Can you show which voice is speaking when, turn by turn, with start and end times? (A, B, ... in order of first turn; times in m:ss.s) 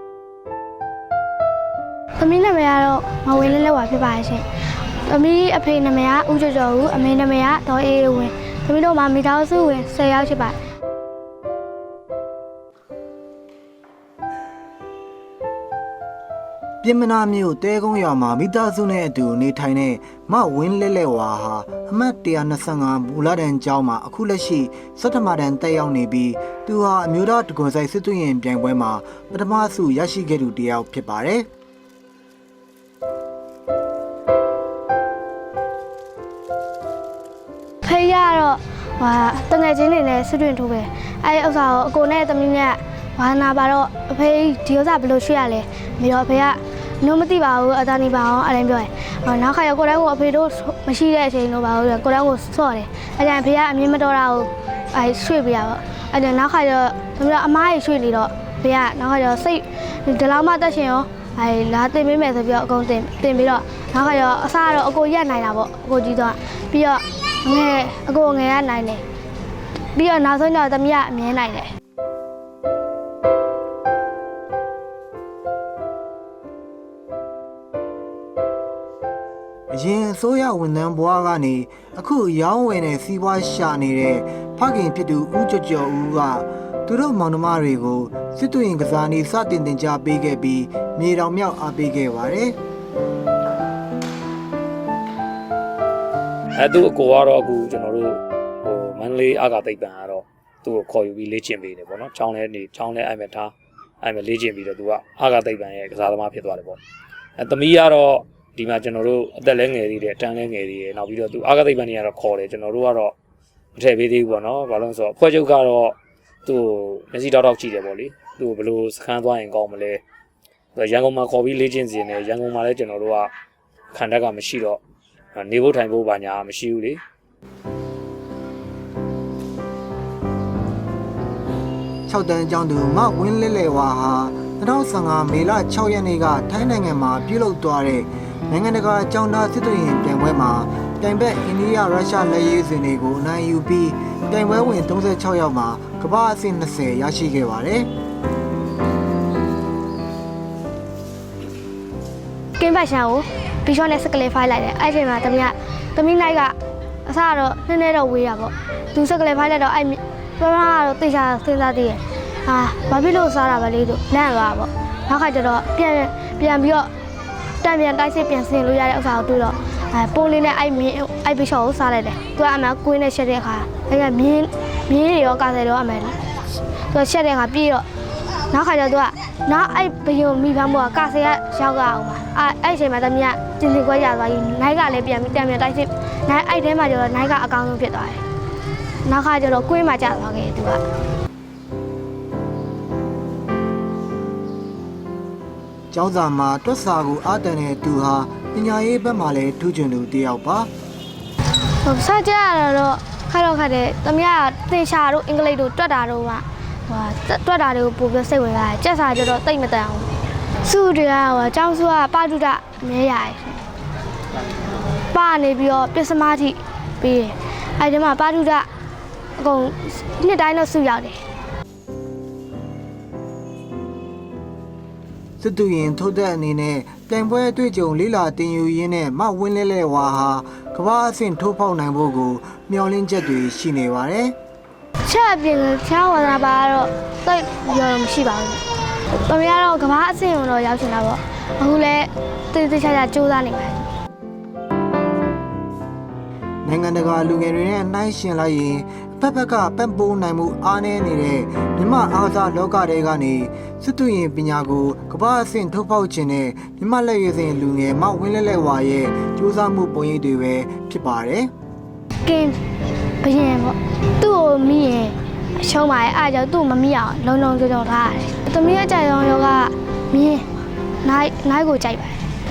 0:02.2-0:04.4 A
0:05.1-0:10.6 A
0:16.8-0:31.5 B
0:37.8-1:09.0 A
1:10.0-1:11.7 A
1:19.7-1:32.6 B
1:36.6-1:46.8 C
1:47.4-1:53.1 C
1:53.8-2:00.0 C
2:00.8-2:03.3 C
2:03.9-2:04.8 C
2:05.4-2:07.0 C
2:12.1-2:27.9 B
2:32.6-2:46.9 A
2:47.6-2:56.2 A
2:56.8-2:57.9 A
2:58.5-3:08.2 A
3:09.0-3:10.8 A
3:15.9-3:20.7 B
3:21.8-3:30.1 A
3:30.6-3:33.6 A
3:35.1-3:38.7 A
3:39.4-3:41.2 A
3:45.4-3:54.4 B
3:55.1-3:58.6 A
3:59.3-4:03.8 A
4:06.6-4:21.5 B
4:22.2-4:22.6 A
4:23.2-4:30.4 A
4:31.0-4:32.2 A